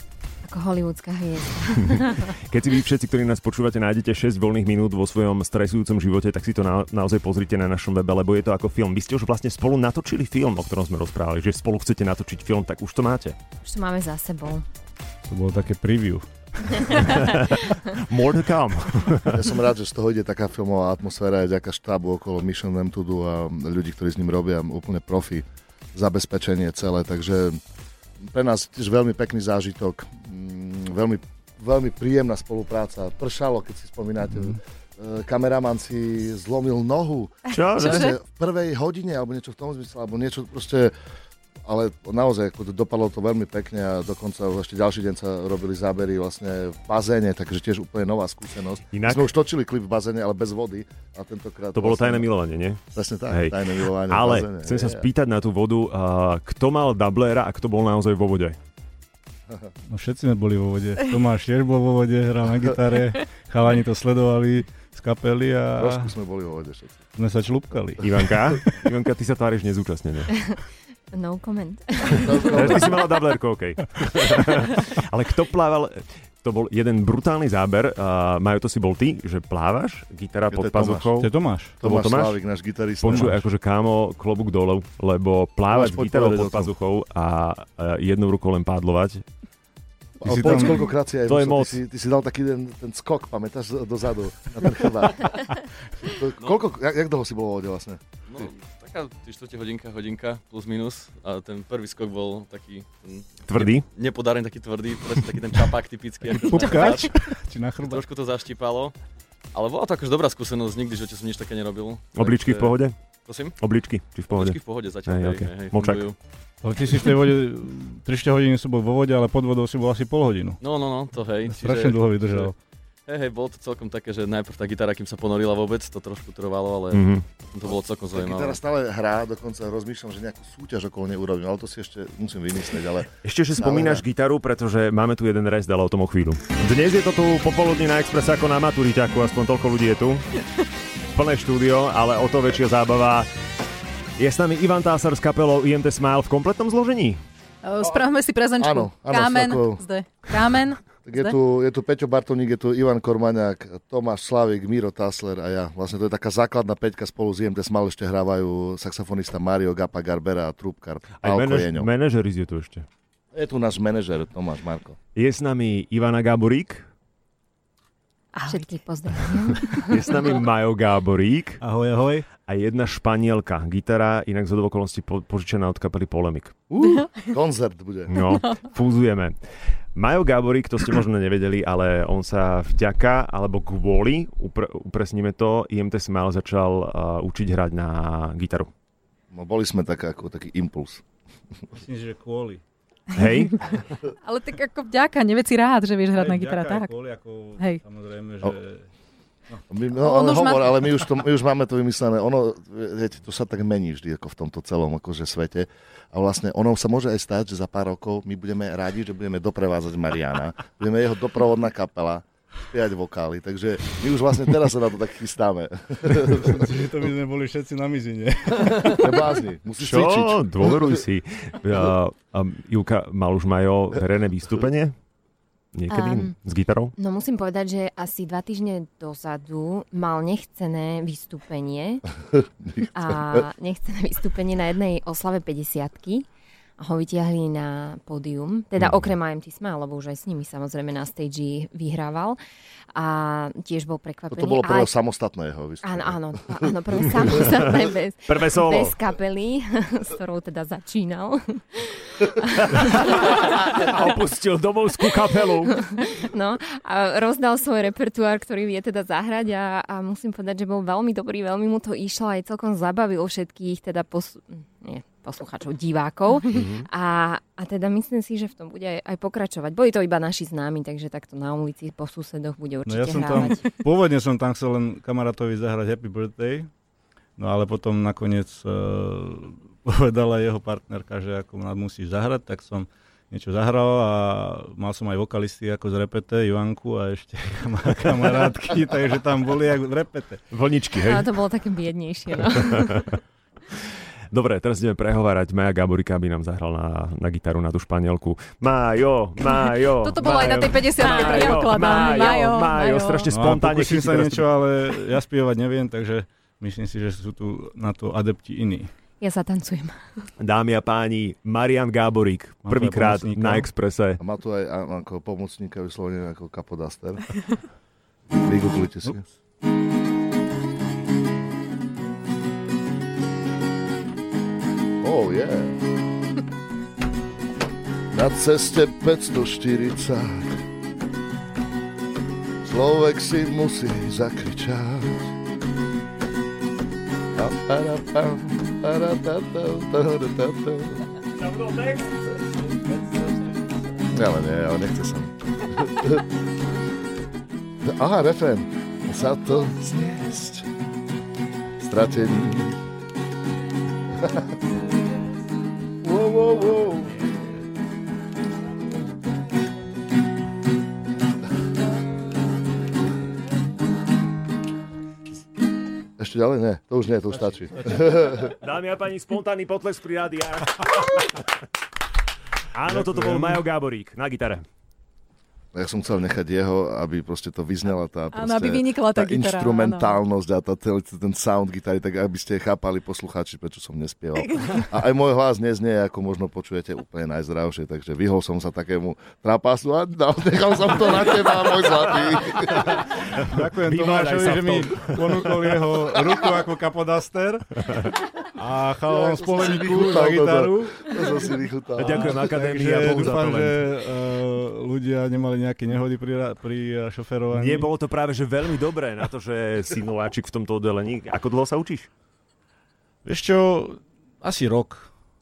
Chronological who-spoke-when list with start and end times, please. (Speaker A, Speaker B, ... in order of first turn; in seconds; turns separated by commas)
Speaker A: 0.4-2.4, Speaker B: 1.8-13.3, Speaker A: 13.6-14.6, Speaker C: 15.2-17.4, Speaker B: 17.0-19.4, Speaker D: 19.3-27.6, Speaker D: 28.3-40.9, Speaker B: 37.5-38.1, Speaker E: 37.7-38.1, Speaker D: 41.6-52.3, Speaker B: 48.9-49.3, Speaker B: 51.7-58.6, Speaker D: 52.9-55.1, Speaker C: 59.9-66.1, Speaker D: 65.8-67.0, Speaker C: 67.2-68.3, Speaker B: 68.0-70.4, Speaker A: 71.1-72.8, Speaker D: 72.1-73.1, Speaker B: 72.4-81.3, Speaker D: 80.5-81.1, Speaker C: 81.2-81.7, Speaker D: 81.8-83.4, Speaker B: 81.8-82.4, Speaker B: 83.0-89.2, Speaker D: 85.7-86.7, Speaker D: 90.2-98.0, Speaker C: 90.2-90.8, Speaker B: 91.2-91.8, Speaker F: 98.4-103.2, Speaker B: 103.4-103.8, Speaker F: 103.8-107.0, Speaker C: 106.2-108.1, Speaker E: 106.6-107.0, Speaker F: 108.3-108.9, Speaker F: 109.5-112.7, Speaker B: 112.1-112.9, Speaker B: 113.5-116.0, Speaker F: 114.3-116.0, Speaker C: 116.6-120.6, Speaker F: 120.6-121.3, Speaker C: 121.4-122.6, Speaker F: 123.2-126.9, Speaker B: 126.9-127.2, Speaker F: 127.5-128.4, Speaker D: 128.1-134.0, Speaker B: 133.2-140.2, Speaker B: 141.1-143.3, Speaker B: 144.2-147.2, Speaker E: 147.6-151.3, Speaker D: 148.6-149.8, Speaker D: 151.0-161.9, Speaker B: 161.2-162.9, Speaker D: 163.3-165.0, Speaker B: 165.1-166.9, Speaker E: 168.3-168.8, Speaker A: 168.5-170.0, Speaker B: 169.7-171.6, Speaker C: 171.6-172.2, Speaker B: 172.4-176.5, Speaker D: 176.7-178.1, Speaker B: 178.1-179.3, Speaker B: 179.9-188.7, Speaker D: 189.3-191.0, Speaker C: 191.7-192.6, Speaker B: 193.1-193.8, Speaker E: 193.2-196.9, Speaker C: 196.1-198.9, Speaker D: 199.7-216.5, Speaker E: 199.9-200.8, Speaker C: 216.1-219.1, Speaker D: 218.9-220.5, Speaker B: 219.8-224.9, Speaker B: 225.7-226.9, Speaker A: 225.9-226.3, Speaker A: 227.0-232.1, Speaker D: 232.3-232.9, Speaker A: 232.9-236.2, Speaker A: 236.8-242.4, Speaker A: 242.9-244.9, Speaker D: 244.3-247.3, Speaker A: 245.8-253.4, Speaker B: 248.2-249.0, Speaker B: 252.6-255.8, Speaker A: 255.7-273.7, Speaker B: 266.5-266.9, Speaker C: 272.9-276.7, Speaker C: 277.4-290.4, Speaker B: 290.5-291.3, Speaker A: 290.9-293.1, Speaker B: 294.3-304.4, Speaker E: 300.0-303.3, Speaker A: 301.0-301.7, Speaker C: 303.3-308.9, Speaker A: 309.2-310.2, Speaker B: 310.4-314.2, Speaker C: 312.6-313.7, Speaker D: 314.2-317.3, Speaker D: 318.3-319.3, Speaker D: 325.0-325.8, Speaker D: 328.1-330.6, Speaker D: 332.6-335.3, Speaker D: 337.4-341.0, Speaker B: 341.7-342.0, Speaker D: 344.1-346.2, Speaker D: 347.8-350.7, Speaker D: 351.8-352.8, Speaker D: 356.0-357.2, Speaker D: 366.2-368.5, Speaker B: 368.2-371.4, Speaker B: 372.7-374.6, Speaker D: 375.7-393.0, Speaker E: 378.3-380.2, Speaker E: 384.5-384.8, Speaker C: 393.5-401.1, Speaker B: 393.8-395.2, Speaker D: 399.1-402.5, Speaker B: 402.0-403.8, Speaker C: 402.0-407.9, Speaker B: 407.5-412.1, Speaker C: 413.2-415.1